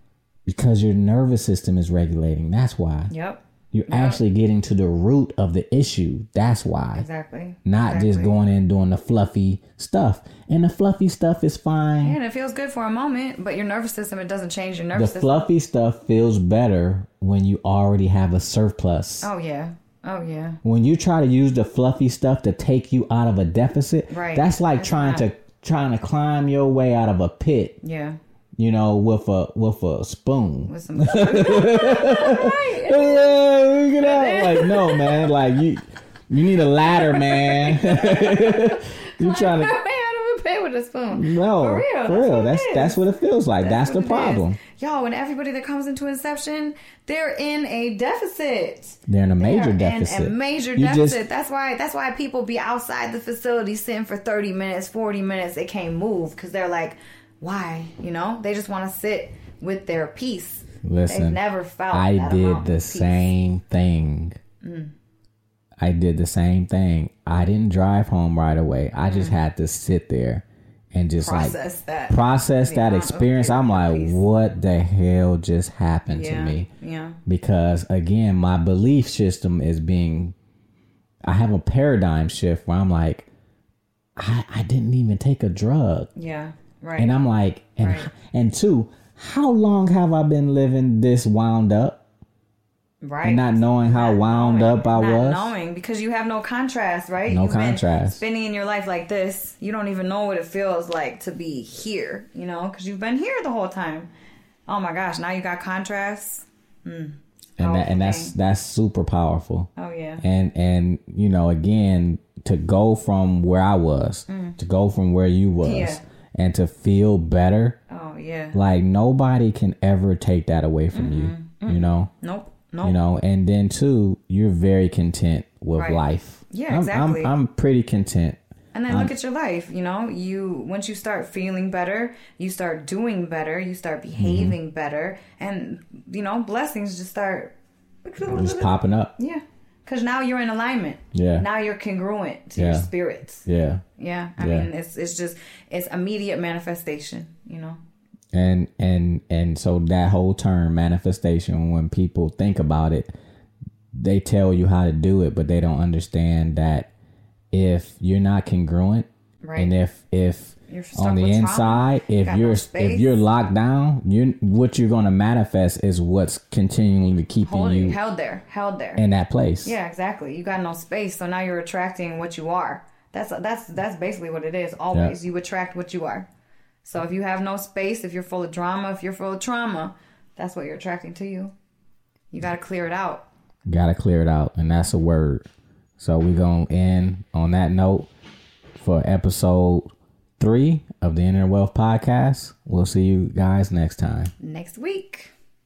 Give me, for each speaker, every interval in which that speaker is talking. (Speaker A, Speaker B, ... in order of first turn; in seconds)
Speaker A: 0.5-3.1, 3.7-7.1, 7.7-12.2, 14.9-19.3, 20.6-27.8, 28.6-39.8, 41.1-44.6, 49.1-51.2, 60.8-64.4, 65.8-71.6, 72.1-76.7, 77.3-80.3, 81.2-83.3, 84.2-86.1, 87.0-92.0, 93.2-95.5, 97.3-98.2, 107.6-117.8, 118.5-122.1, 122.8-129.2, 134.2-134.6, 138.2-139.1, 141.1-141.5, 142.6-142.9, 143.5-143.8, 144.4-144.7, 148.3-153.1, 153.9-156.9, 157.5-168.0, 169.0-169.8, 174.9-175.2, 183.7-185.4, 186.0-188.1, 188.8-194.3
Speaker B: 3.1-4.2, 7.0-8.3, 12.0-15.4, 19.2-20.6, 24.1-25.2, 27.8-28.2, 30.7-35.4, 37.0-43.0, 43.6-63.3, 64.6-64.9, 69.1-69.4, 71.2-74.2, 76.1-77.2, 86.2-87.1, 87.8-88.1, 93.0-104.1, 104.7-108.3, 109.8-110.2, 114.3-114.6, 115.6-116.0, 117.9-118.6, 120.9-123.0, 125.8-127.3, 128.7-137.5, 138.1-143.4, 144.0-147.8, 159.4-159.7, 160.7-163.1, 167.4-169.0, 169.6-176.3, 176.8-181.5, 182.3-183.3, 194.4-195.3